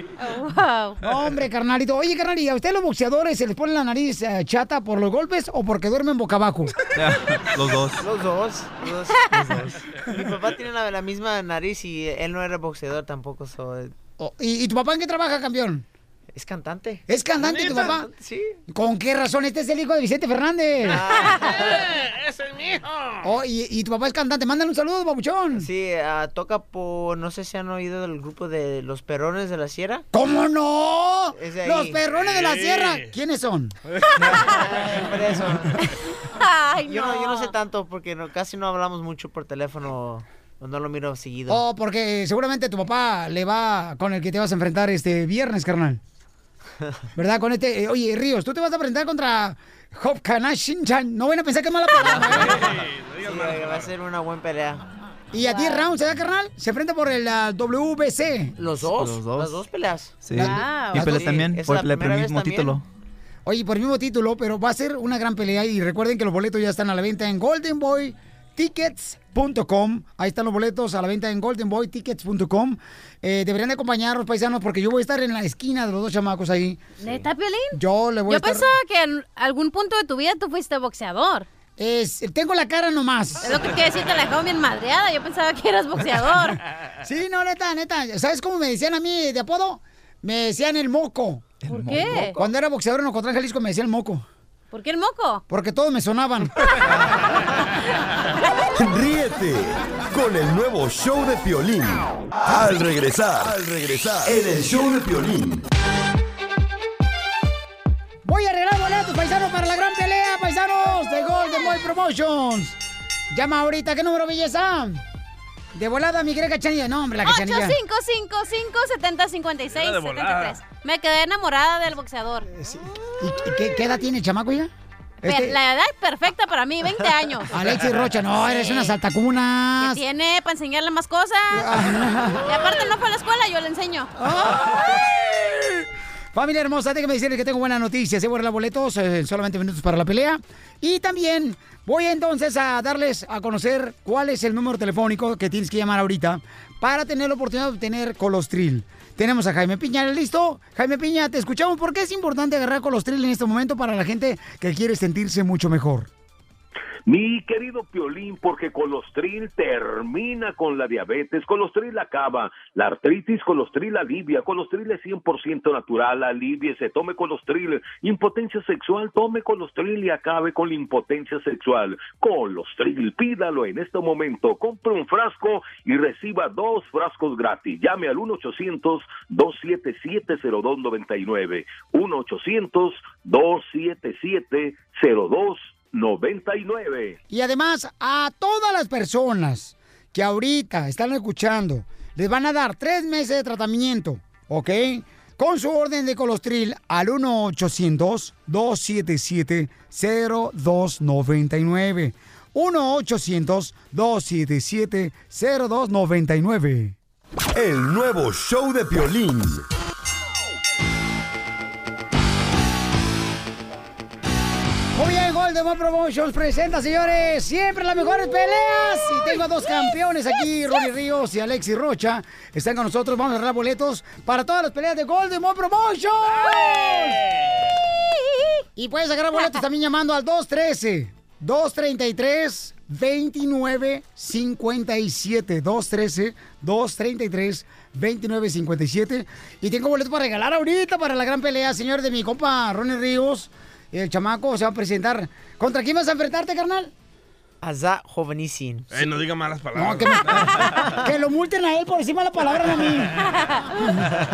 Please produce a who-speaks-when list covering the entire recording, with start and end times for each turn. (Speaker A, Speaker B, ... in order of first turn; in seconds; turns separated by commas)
Speaker A: 0.2-1.0, Speaker B: 1.0-6.7, Speaker C: 6.9-8.0, Speaker D: 8.0-13.9, Speaker B: 14.2-15.8, Speaker D: 16.3-17.0, Speaker B: 17.1-18.1, Speaker E: 17.4-18.0, Speaker D: 17.9-18.6, Speaker B: 18.7-21.0, Speaker D: 20.8-21.8, Speaker E: 21.3-23.2, Speaker B: 23.2-25.7, Speaker D: 25.6-30.1, Speaker B: 30.1-33.7, Speaker D: 31.4-32.0, Speaker E: 32.1-33.0, Speaker D: 34.3-35.7, Speaker A: 36.4-37.5, Speaker D: 36.9-41.6, Speaker B: 41.5-46.0, Speaker B: 47.1-52.7, Speaker E: 52.2-53.9, Speaker D: 53.2-54.8, Speaker B: 55.3-58.5, Speaker D: 58.6-60.2, Speaker C: 58.8-59.6, Speaker C: 60.2-62.8, Speaker B: 60.3-61.2, Speaker A: 60.4-61.2, Speaker D: 61.0-62.8, Speaker B: 63.4-76.8, Speaker A: 77.0-81.5, Speaker B: 77.7-78.7, Speaker B: 81.8-83.6, Speaker A: 83.4-86.6, Speaker B: 87.0-91.5, Speaker C: 91.6-92.3, Speaker A: 91.7-92.4, Speaker B: 92.3-94.2, Speaker A: 94.7-95.4, Speaker B: 95.5-96.5, Speaker F: 98.8-105.6, Speaker B: 108.2-112.8, Speaker B: 113.3-115.0, Speaker B: 115.7-117.8, Speaker A: 117.2-122.5, Speaker E: 119.7-120.6, Speaker B: 122.5-124.7, Speaker B: 125.2-125.6, Speaker A: 125.2-127.5, Speaker B: 127.5-130.0, Speaker A: 128.4-128.9, Speaker A: 129.8-131.8, Speaker B: 131.5-132.5, Speaker A: 132.4-134.1, Speaker B: 134.2-135.8, Speaker B: 136.3-156.1, Speaker G: 157.1-187.2, Speaker B: 187.3-206.9, Speaker F: 207.5-209.6, Speaker B: 214.9-227.2, Speaker E: 226.4-227.1, Speaker B: 228.8-246.9, Speaker D: 247.6-248.9, Speaker E: 248.9-250.9, Speaker B: 249.7-253.2, Speaker A: 253.2-254.0